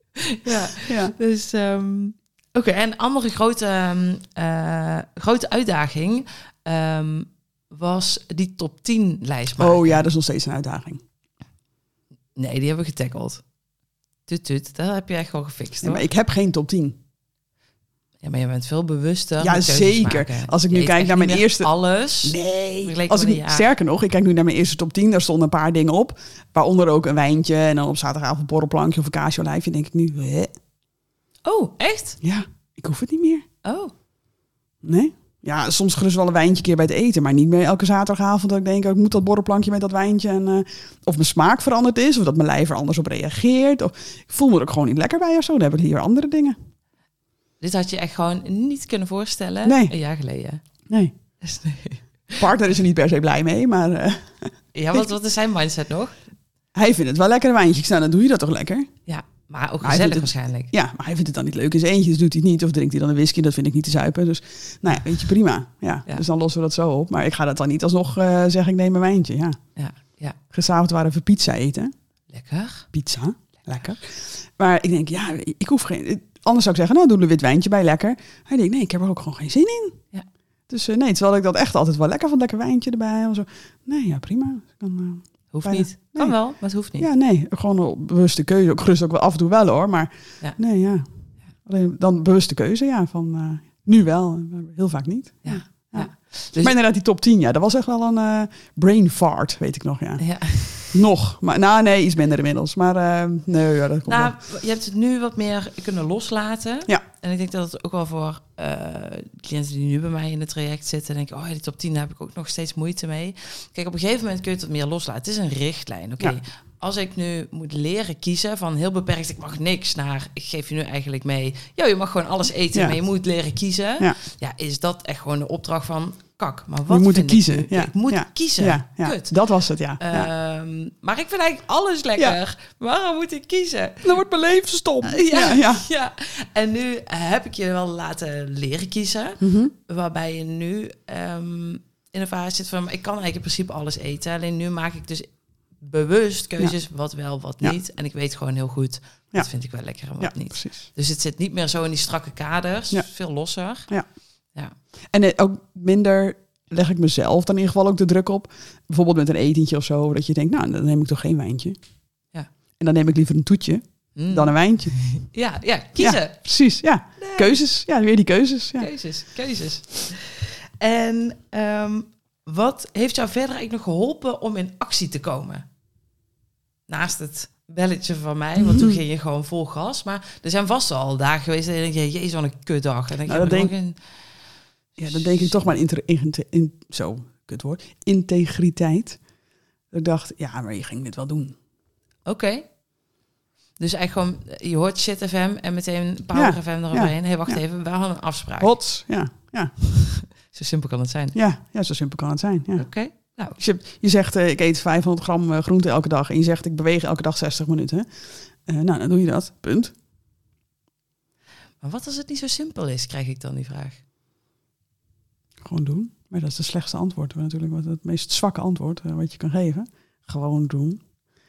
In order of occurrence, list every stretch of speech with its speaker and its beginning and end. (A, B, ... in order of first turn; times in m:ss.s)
0:00.3-0:10.0 A
0:00.8-0:01.1 B
0:09.6-0:11.0 B
0:12.4-0:13.4 A
0:14.2-0:16.0 A
0:15.8-0:17.0 B
0:18.2-0:23.7 A
0:19.4-0:21.7 B
0:22.2-0:30.5 B
0:31.4-0:32.2 A
0:32.2-0:33.4 B
0:33.6-0:33.9 A
0:34.8-0:46.6 B
0:47.6-0:50.6 A
0:49.6-0:49.9 B
0:51.4-0:52.4 A
0:52.4-0:55.1 B
0:54.7-0:56.2 A
0:56.7-0:58.9 B
0:59.0-1:00.7 A
0:59.8-1:09.6 B
1:09.8-1:10.4 A
1:10.5-1:11.9 B
1:12.3-1:12.9 A
1:12.9-1:20.0 B
1:20.7-1:44.3 B
1:25.5-1:27.1 A
1:35.4-1:36.7 A
1:40.2-1:41.0 A
1:44.1-2:14.2 A
2:02.7-2:03.0 B
2:06.9-2:10.3 B
2:14.0-2:15.8 B
2:15.0-2:33.9 A
2:19.4-2:19.7 B
2:30.2-2:30.8 B
2:35.1-2:41.8 B
2:42.8-2:45.2 B
2:44.1-2:46.5 A
2:46.0-2:48.9 B
2:47.2-2:47.6 A
2:48.8-2:55.6 A
2:56.9-3:04.4 A
2:58.6-2:59.0 B
3:03.3-3:03.7 B
3:05.0-3:09.2 B
3:05.0-3:05.7 A
3:09.9-3:11.5 B
3:12.2-3:12.7 A
3:13.8-3:18.8 A
3:16.3-3:17.6 B
3:18.6-3:19.7 B
3:20.0-3:21.4 A
3:21.3-3:29.9 B
3:22.7-3:23.6 A
3:31.8-3:34.0 A
3:35.6-3:41.0 B